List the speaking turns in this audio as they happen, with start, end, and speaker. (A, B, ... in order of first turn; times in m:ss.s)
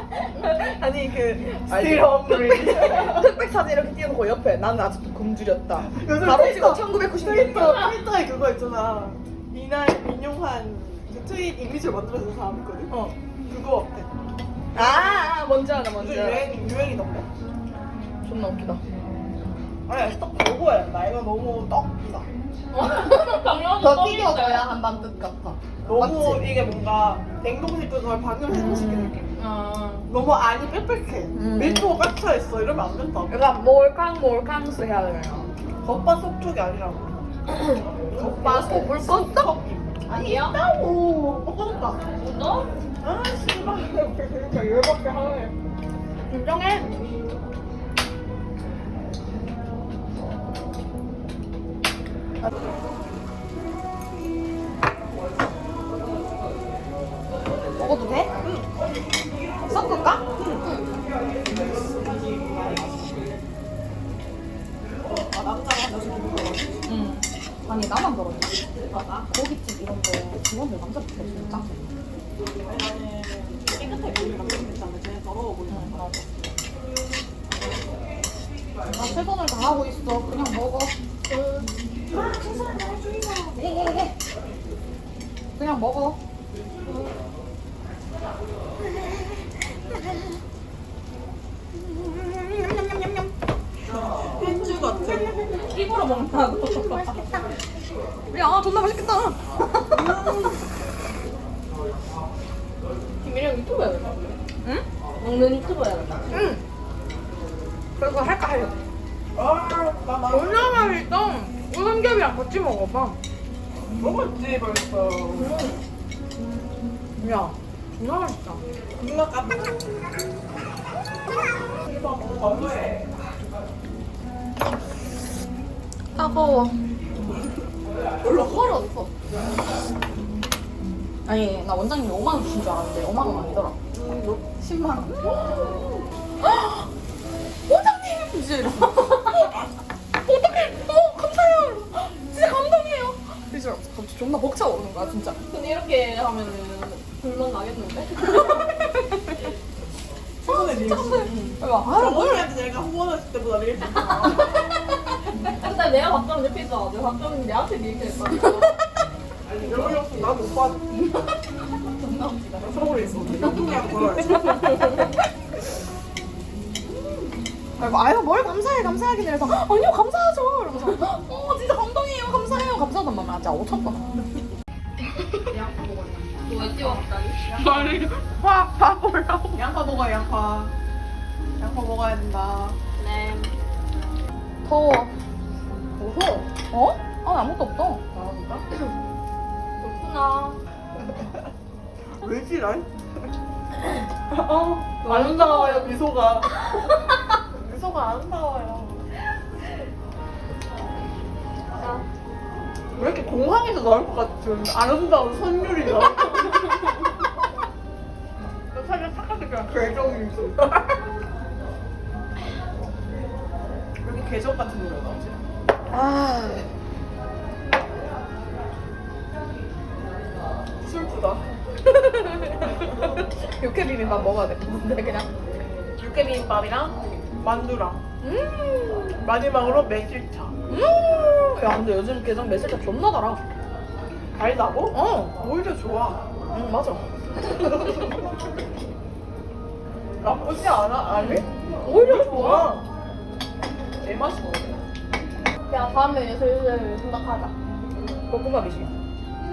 0:00.8-0:03.3 A
0:01.6-0:08.0 B
0:05.9-0:14.1 A
0:14.7-0:16.5 B
0:14.8-0:15.4 A
0:16.0-0:17.3 A
0:18.2-0:18.8 B
0:19.9-0:22.3 A
0:22.7-0:24.8 C
0:22.8-0:26.4 B
0:25.8-0:29.4 A
0:28.5-0:29.1 B
0:29.4-0:30.1 C
0:30.1-0:33.4 A
0:31.4-0:31.9 B
0:33.3-0:35.5 B
0:35.8-0:37.2 A
0:37.5-0:37.8 C
0:38.1-0:42.0 A
0:38.4-0:39.5 B
0:40.1-0:40.6 C
0:42.2-0:42.7 C
0:43.0-0:45.5 A
0:46.3-0:46.9 B
0:57.8-0:58.3 B
0:58.4-0:58.7 A
0:59.7-1:00.2 B
1:00.3-1:00.7 A
1:01.4-1:03.2 A
1:05.1-1:06.8 A
1:06.9-1:08.6 B
1:08.9-1:09.2 C
1:09.3-1:11.9 B
1:12.6-1:16.2 A
1:15.7-1:16.3 B
1:18.9-1:20.9 B
1:21.3-1:21.7 C
1:22.1-1:23.5 A
1:23.6-1:24.1 B
1:25.6-1:26.2 B
1:26.9-1:27.1 C
1:31.8-1:33.3 B
1:33.9-1:35.4 A
1:35.0-1:37.3 C
1:38.3-1:39.9 B
1:39.9-1:40.6 A
1:43.2-1:44.4 C
1:45.2-1:46.5 C
1:46.3-1:46.6 B
1:48.0-1:48.7 B
1:49.3-1:50.8 A
1:50.3-1:53.2 B
1:54.0-1:55.5 A
1:55.3-1:55.8 C
1:57.2-1:58.6 B
1:59.0-2:00.1 A
2:01.7-2:03.0 A
2:06.2-2:06.8 B
2:08.2-2:09.1 B
2:08.3-2:08.6 A
2:11.2-2:13.8 B
2:13.9-2:14.5 A
2:14.6-2:15.3 B
2:16.4-2:16.9 B
2:17.7-2:19.5 B
2:20.2-2:25.4 B
2:25.5-2:28.8 C
2:30.4-2:34.6 A
2:30.4-2:32.5 B
2:34.2-2:34.7 C
2:35.3-2:38.8 C
2:39.5-2:40.9 A
2:39.7-2:40.3 C
2:42.1-2:42.4 C
2:42.6-2:45.0 A
2:44.4-2:45.0 C
2:47.8-2:54.0 B
2:55.5-2:57.4 C
2:57.5-2:58.2 A
2:57.5-2:59.6 B
2:59.5-3:00.7 A
3:01.6-3:02.8 A
3:03.0-3:03.5 C
3:04.6-3:05.1 B
3:06.0-3:06.5 A
3:06.7-3:08.0 B
3:08.1-3:08.6 A
3:09.8-3:10.6 C
3:12.1-3:12.9 A
3:14.3-3:16.5 A
3:15.0-3:15.9 C
3:17.5-3:19.0 A
3:21.7-3:22.0 C
3:22.9-3:26.8 A
3:28.7-3:30.9 A
3:34.0-3:35.4 A
3:35.9-3:36.6 B
3:40.8-3:41.5 A
3:41.8-3:45.3 B
3:46.0-3:48.0 A
3:48.2-3:49.2 B
3:49.2-3:50.6 A
3:50.7-3:53.4 B
3:54.3-3:56.2 A
3:54.9-3:55.3 B
3:56.5-3:57.0 B
3:57.6-3:57.9 B
4:00.2-4:02.9 A
4:01.2-4:02.8 B
4:04.0-4:04.8 A
4:05.7-4:07.5 C
4:08.3-4:08.9 B